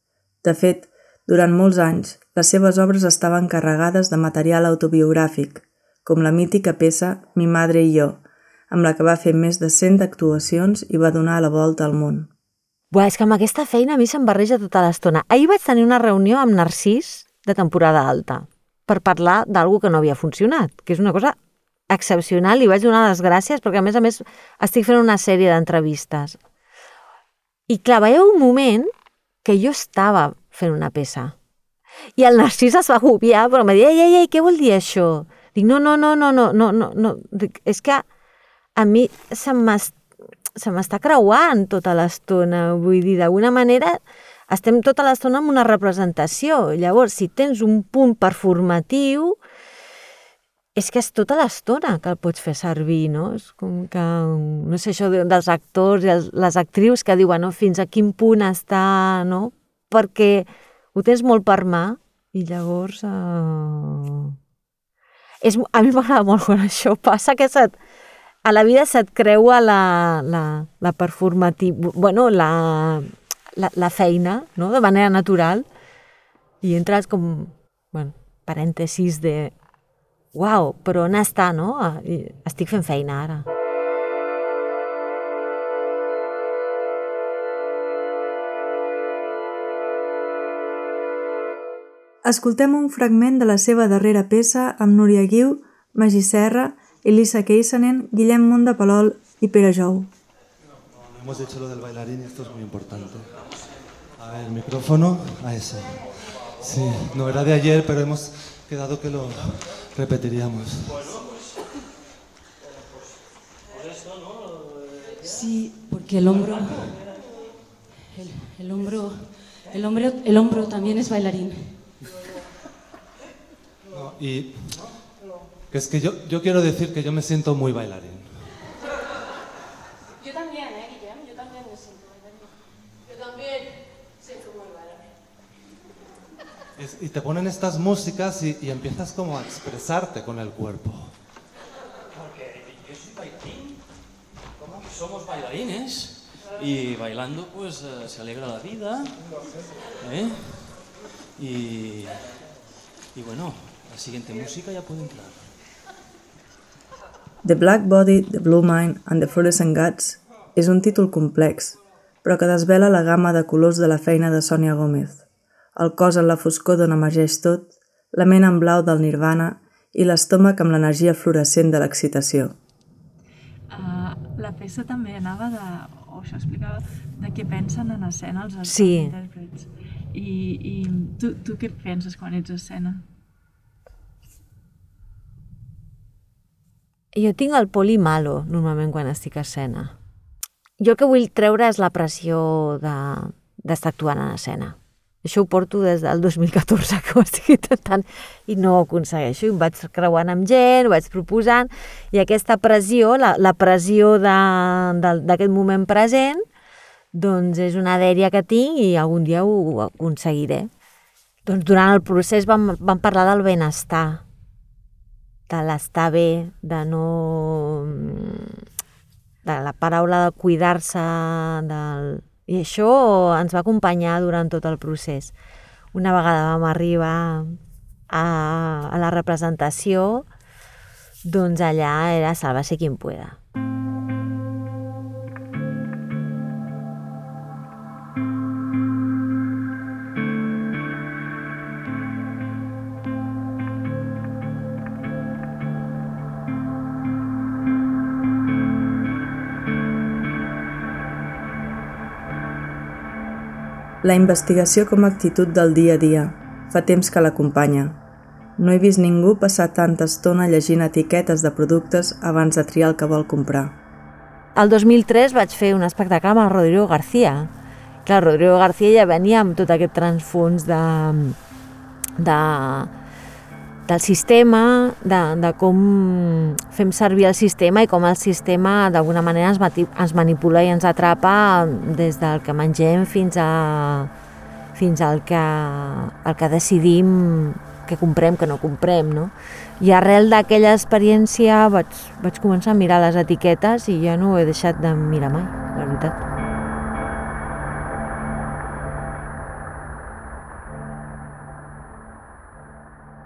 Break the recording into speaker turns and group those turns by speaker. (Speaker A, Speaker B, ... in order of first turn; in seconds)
Speaker A: 0.4-12.3, 92.2-100.1, 157.4-165.2, 165.8-172.5, 254.0-258.0, 258.6-263.7
Speaker B: 12.9-21.4, 21.9-26.4, 27.7-28.9, 29.4-31.3, 32.2-38.0, 38.8-40.0, 40.5-49.4, 50.8-64.3, 65.4-67.7, 68.4-75.6, 76.6-79.5, 80.3-83.5, 178.6-179.2, 187.1-189.9, 190.8-206.4, 207.1-210.7, 211.4-214.2, 215.5-218.6, 219.4-225.3, 225.9-227.6, 228.1-230.2, 231.2-233.4, 264.6-267.5, 268.0-271.4, 272.2-272.9, 273.9-284.1, 284.7-296.2
Speaker C: 101.0-103.4, 104.2-111.2, 123.9-125.1, 125.7-128.6, 136.8-141.2
Speaker D: 115.2-117.2, 118.1-121.9
Speaker E: 142.6-143.8, 144.6-149.3, 150.0-150.8, 151.3-152.2, 153.1-155.5
Speaker F: 173.7-183.0